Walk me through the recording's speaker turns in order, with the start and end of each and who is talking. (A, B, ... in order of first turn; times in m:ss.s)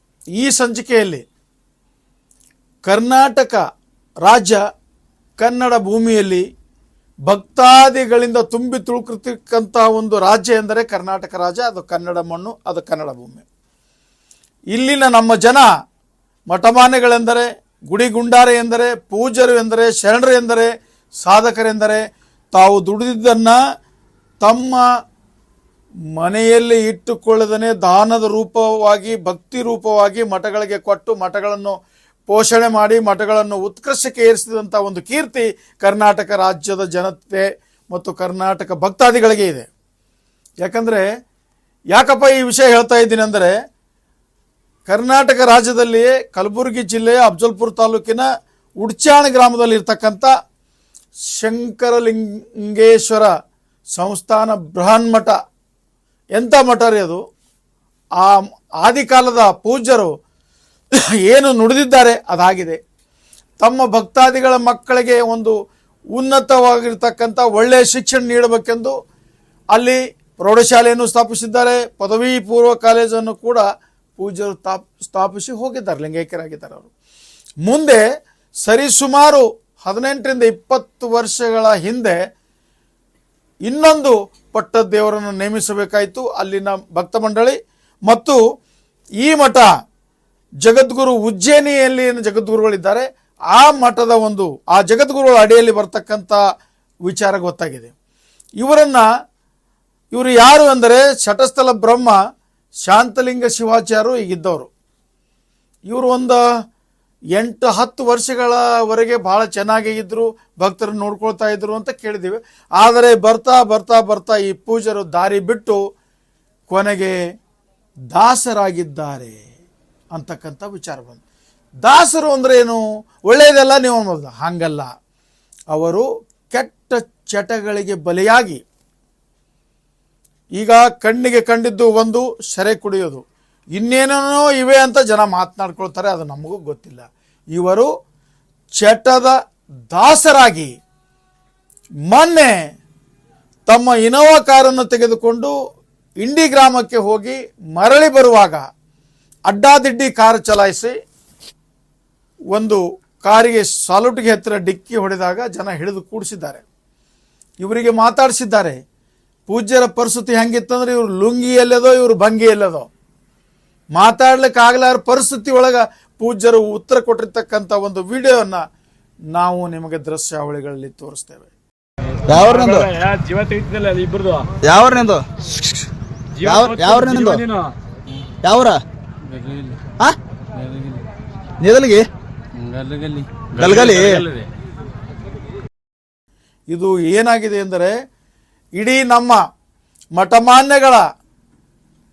0:00.4-0:01.2 A
0:02.8-0:03.6 A
0:04.3-0:04.6 A
0:05.4-0:06.4 A
0:07.3-0:13.4 A
0:14.7-0:15.7 A
0:16.5-0:20.7 A
0:21.2-0:22.0 A
0:22.5-0:23.6 A
0:24.4-0:24.8 A
0:26.2-0:31.8 A
0:32.3-0:39.7 A
0:40.6-0:41.0 A
0:41.9-0:43.5 A
0:44.9-0:48.3 A
0:48.8-0:50.3 A
0:51.4-0:53.3 A
0:54.0-0:55.3 A
0:56.4-0:57.2 A
0:58.2-1:00.1 A
1:01.3-1:02.8 A
1:03.6-1:05.5 A
1:06.2-1:09.0 A
1:09.7-1:13.6 A
1:14.2-1:16.9 A
1:17.6-1:18.0 A
1:18.7-1:22.2 A
1:23.7-1:27.6 A
1:28.1-1:28.4 A
1:29.2-1:29.7 A
1:30.6-1:36.4 A
1:37.1-1:37.9 A
1:38.6-1:39.0 A
1:40.1-1:42.2 A
1:42.9-1:44.7 A
1:45.9-1:46.4 A
1:47.4-1:55.8 A
1:56.7-1:57.2 A
1:58.1-1:59.4 A
2:00.2-2:01.2 A
2:01.8-2:04.9 A
2:05.7-2:08.6 A
2:10.6-2:13.2 A
2:13.8-2:17.9 A
2:18.8-2:19.3 A
2:19.9-2:20.7 A
2:22.1-2:22.5 A
2:23.7-2:25.5 A
2:26.2-2:28.6 A
2:29.5-2:30.9 A
2:32.5-2:36.6 A
2:37.6-2:38.8 A
2:39.5-2:42.9 A
2:44.0-2:48.6 A
2:49.4-2:51.5 A
2:52.3-2:52.9 B
2:52.3-2:54.5 C
2:54.6-2:55.3 B
2:56.4-2:57.7 C
2:56.4-2:57.4 B
2:58.4-2:58.8 B
2:59.4-2:59.8 C
3:01.6-3:02.1 B
3:02.8-3:04.4 C
3:03.6-3:04.3 B
3:06.7-3:07.9 A
3:08.8-3:09.4 A
3:10.2-3:11.0 A